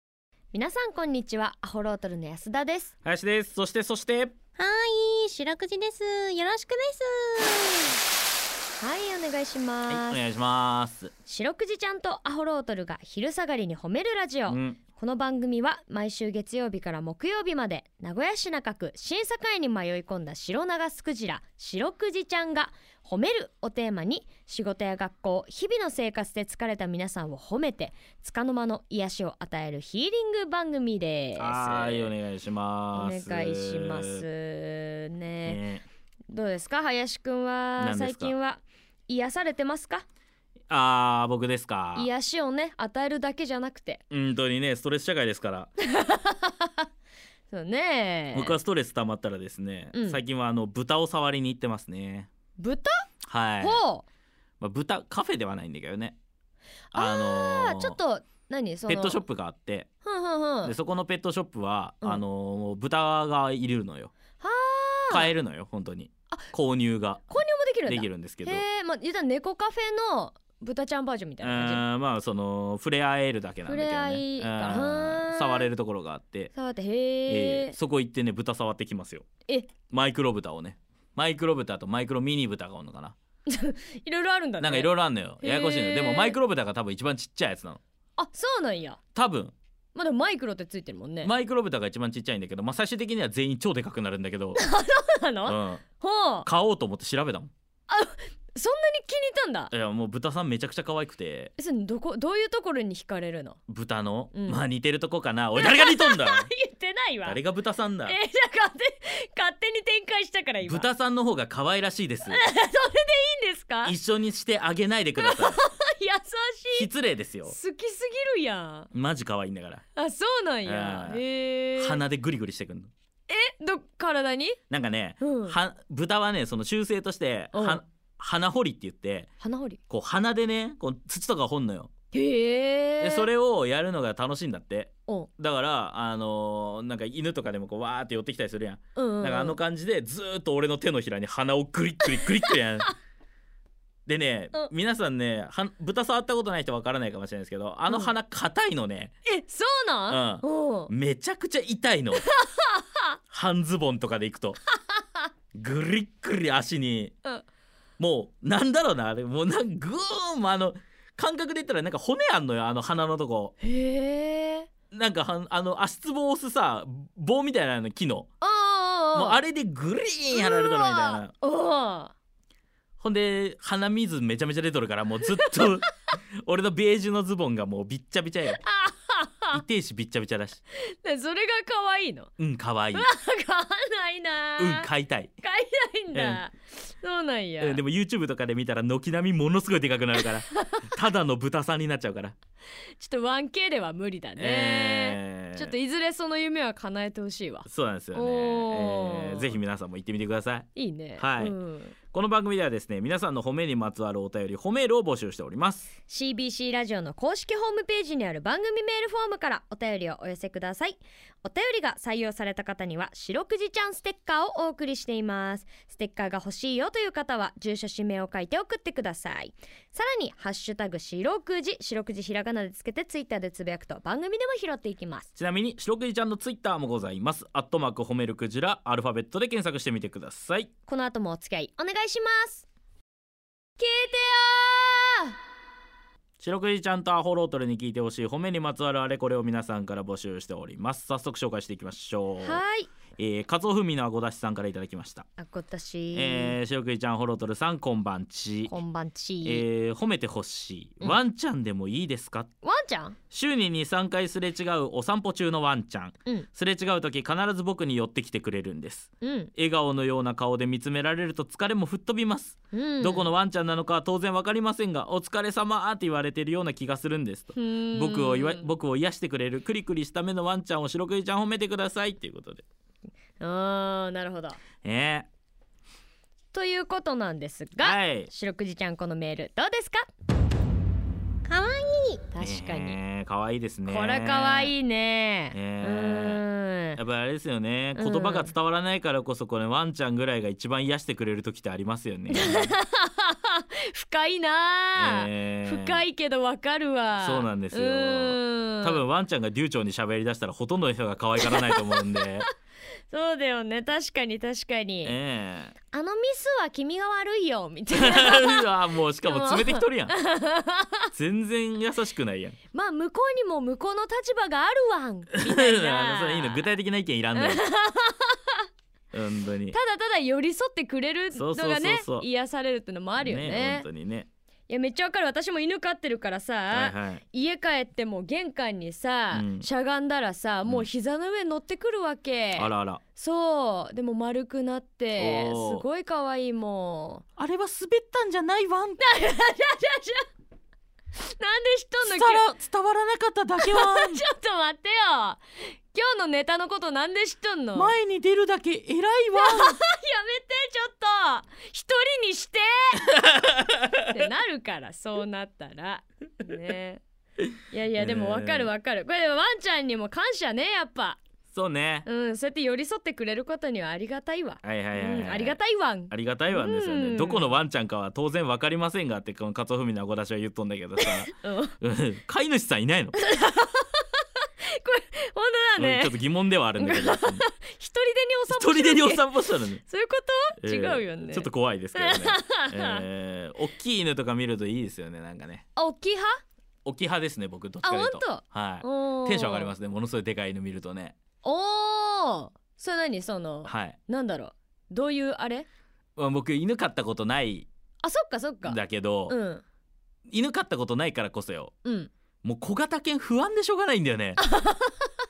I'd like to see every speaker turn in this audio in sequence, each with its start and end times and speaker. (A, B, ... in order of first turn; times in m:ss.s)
0:00.5-0:02.9 A
0:03.0-0:04.4 B
0:04.6-0:08.0 C
0:08.8-0:10.2 A
0:09.9-0:11.1 B
0:11.2-0:32.1 A
0:14.5-0:14.8 B
0:31.4-0:34.2 B
0:32.9-0:35.6 A
0:35.4-0:35.8 B
0:36.3-0:40.1 A
0:37.8-0:38.3 B
0:40.7-0:42.1 B
0:42.0-0:44.0 A
0:44.1-0:45.7 B
0:45.8-0:46.9 A
0:47.5-0:48.6 A
0:48.3-0:52.3 B
0:49.9-0:50.2 A
0:52.6-0:53.0 A
0:53.3-0:53.8 B
0:53.6-0:54.0 A
0:54.6-0:56.2 B
0:56.9-0:59.2 A
0:56.9-0:58.0 B
0:58.9-0:59.9 B
1:00.0-1:00.8 A
1:00.6-1:04.1 B
1:04.4-1:05.3 A
1:05.1-1:07.3 B
1:07.3-1:11.9 A
1:07.9-1:08.6 B
1:11.4-1:16.5 B
1:13.7-1:15.7 A
1:16.5-1:17.8 A
1:17.3-1:19.3 B
1:19.5-1:19.7 A
1:19.9-1:23.2 B
1:23.5-1:26.4 A
1:24.6-1:27.8 B
1:28.2-1:29.0 A
1:29.2-1:29.5 B
1:30.0-1:31.3 A
1:31.2-1:34.6 B
1:34.6-1:36.5 A
1:35.5-1:35.8 B
1:36.4-1:37.5 B
1:37.9-1:39.7 A
1:39.7-1:41.5 B
1:41.6-1:43.6 A
1:43.7-1:46.5 B
1:44.3-1:44.6 A
1:45.6-1:47.4 A
1:47.2-1:48.2 B
1:48.1-1:50.9 A
1:50.6-1:52.4 B
1:52.3-1:54.0 A
1:53.8-1:55.6 B
1:55.2-1:56.9 A
1:56.7-1:57.6 B
1:57.5-1:58.9 A
1:58.9-1:59.8 B
2:00.0-2:02.0 A
2:00.7-2:01.2 B
2:01.8-2:02.9 B
2:03.3-2:04.6 A
2:04.7-2:09.3 B
2:05.2-2:05.6 A
2:07.5-2:07.8 A
2:09.4-2:09.8 A
2:09.9-2:11.9 B
2:12.1-2:13.3 A
2:13.0-2:22.9 B
2:19.0-2:19.6 A
2:22.0-2:22.6 A
2:24.1-2:29.1 B
2:27.9-2:28.1 A
2:29.3-2:30.9 A
2:30.1-2:32.2 B
2:32.1-2:33.2 A
2:33.3-2:34.6 B
2:34.8-2:35.3 A
2:35.6-2:37.2 B
2:38.0-2:43.5 B
2:43.6-2:44.7 A
2:44.9-2:48.3 B
2:48.4-2:49.4 A
2:49.1-2:51.3 B
2:50.3-2:52.1 A
2:53.0-2:58.6 B
2:55.4-2:55.9 A
2:58.6-2:59.6 A
2:59.5-3:00.6 B
3:00.9-3:02.3 A
3:02.4-3:03.1 B
3:03.0-3:04.9 A
3:04.6-3:05.3 B
3:05.4-3:07.8 A
3:06.1-3:06.4 B
3:07.6-3:12.4 B
3:10.2-3:10.9 A
3:13.0-3:19.6 A
3:14.4-3:15.8 B
3:17.7-3:21.6 B
3:20.8-3:22.0 A
3:22.1-3:25.9 B
3:26.1-3:45.3 A
3:45.4-3:50.7 B
3:50.9-3:52.7 A
3:53.8-3:55.4 A
3:56.4-4:02.6 B
4:02.4-4:02.9 A
4:03.2-4:05.3 B
4:05.4-4:06.6 A
4:06.1-4:08.8 B
4:08.7-4:09.6 A
4:09.4-4:12.5 B
4:12.6-4:13.2 A
4:13.3-4:32.6 B
4:19.2-4:19.5 A
4:22.7-4:23.3 A
4:27.6-4:28.7 A
4:33.4-4:34.6 A
4:34.8-4:35.3 B
4:36.5-4:40.0 A
4:37.8-4:38.3 B
4:41.5-4:42.3 C
4:42.3-4:43.0 A
4:42.4-4:44.7 B
4:43.8-4:47.0 A
4:45.5-4:46.4 B
4:47.0-4:52.8 B
4:48.0-4:48.5 A
4:52.3-4:59.0 A
4:55.0-4:56.0 B
4:57.2-5:02.5 B
5:01.4-5:02.2 A
5:03.1-5:05.2 A
5:05.0-5:05.8 B
5:05.9-5:08.7 A
5:07.9-5:10.2 B
5:09.2-5:11.1 A
5:11.1-5:12.6 B
5:12.7-5:16.7 A
5:15.3-5:17.6 B
5:17.4-5:18.6 A
5:19.1-5:19.8 B
5:19.7-5:23.9 A
5:21.3-5:22.3 B
5:23.2-5:24.3 B
5:24.7-5:37.2 A
5:26.7-5:27.2 B
5:29.3-5:29.7 B
5:32.6-5:33.0 B
5:35.2-5:35.8 B
5:37.4-5:39.0 B
5:39.0-5:40.3 A
5:41.2-5:42.5 A
5:42.0-5:44.2 B
5:43.6-5:48.0 A
5:47.8-5:49.8 B
5:49.4-5:53.4 A
5:53.5-5:54.0 B
5:54.0-5:57.0 A
5:57.7-6:01.2 A
5:58.0-5:58.7 B
6:01.5-6:02.1 B
6:02.0-6:07.5 A
6:04.6-6:05.6 B
6:06.1-6:13.2 B
6:11.0-6:11.8 A
6:13.2-6:16.2 A
6:15.8-6:17.4 B
6:16.8-6:23.0 A
6:18.5-6:19.8 B
6:20.6-6:25.6 B
6:25.8-6:26.4 A
6:26.8-6:31.2 B
6:27.8-6:29.7 A
6:31.4-6:35.7 A
6:33.7-6:34.0 B
6:36.2-6:37.7 B
6:38.0-6:39.6 A
6:38.6-6:39.4 B
6:40.3-6:41.7 B
6:41.8-6:42.1 A
6:42.4-6:44.4 B
6:44.4-6:45.1 A